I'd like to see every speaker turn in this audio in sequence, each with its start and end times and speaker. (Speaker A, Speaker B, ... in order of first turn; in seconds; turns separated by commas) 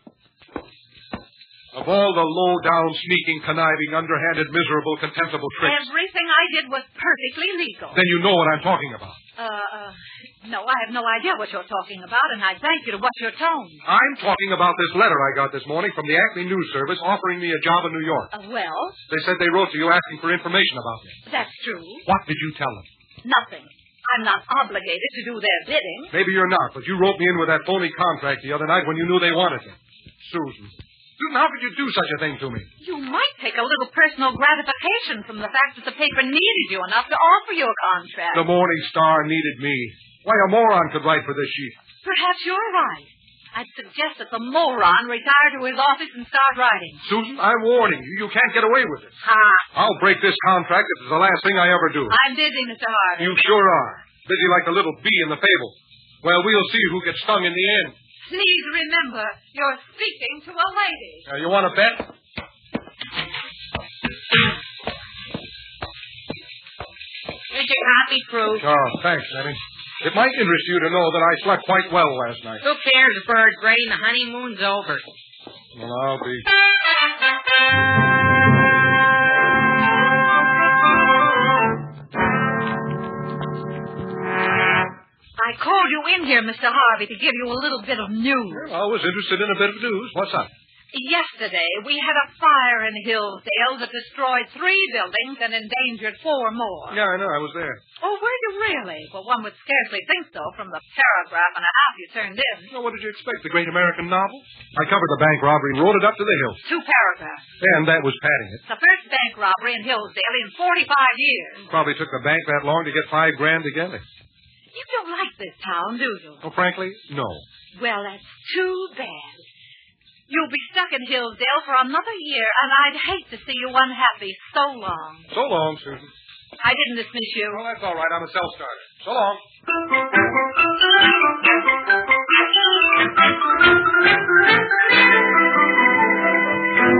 Speaker A: 1.7-5.9, Speaker B: 5.6-8.0, Speaker A: 7.9-9.2, Speaker B: 9.4-13.8, Speaker A: 13.8-18.3, Speaker B: 18.3-19.0, Speaker A: 19.1-21.2, Speaker B: 21.3-22.1, Speaker A: 22.1-22.9, Speaker B: 23.2-26.1, Speaker A: 26.1-32.7, Speaker B: 32.8-38.5, Speaker A: 38.3-41.8, Speaker B: 42.0-47.0, Speaker A: 47.0-49.2, Speaker B: 49.2-49.7, Speaker A: 49.7-52.2, Speaker B: 52.1-53.4, Speaker A: 53.2-58.0, Speaker B: 58.3-61.3, Speaker A: 61.3-62.1, Speaker C: 67.5-68.7, Speaker A: 68.5-72.6, Speaker C: 72.6-75.0, Speaker A: 75.8-76.5, Speaker B: 85.4-88.7, Speaker A: 88.5-90.5, Speaker B: 90.9-97.0, Speaker A: 96.9-97.8, Speaker B: 98.0-102.7, Speaker A: 102.7-106.6, Speaker B: 106.6-107.5, Speaker A: 107.6-108.6, Speaker B: 108.7-111.6, Speaker A: 111.7-114.0, Speaker B: 114.7-116.4, Speaker A: 116.4-117.5, Speaker B: 117.8-119.4, Speaker B: 120.3-125.3, Speaker A: 125.3-126.1, Speaker B: 126.6-127.6, Speaker A: 127.5-129.4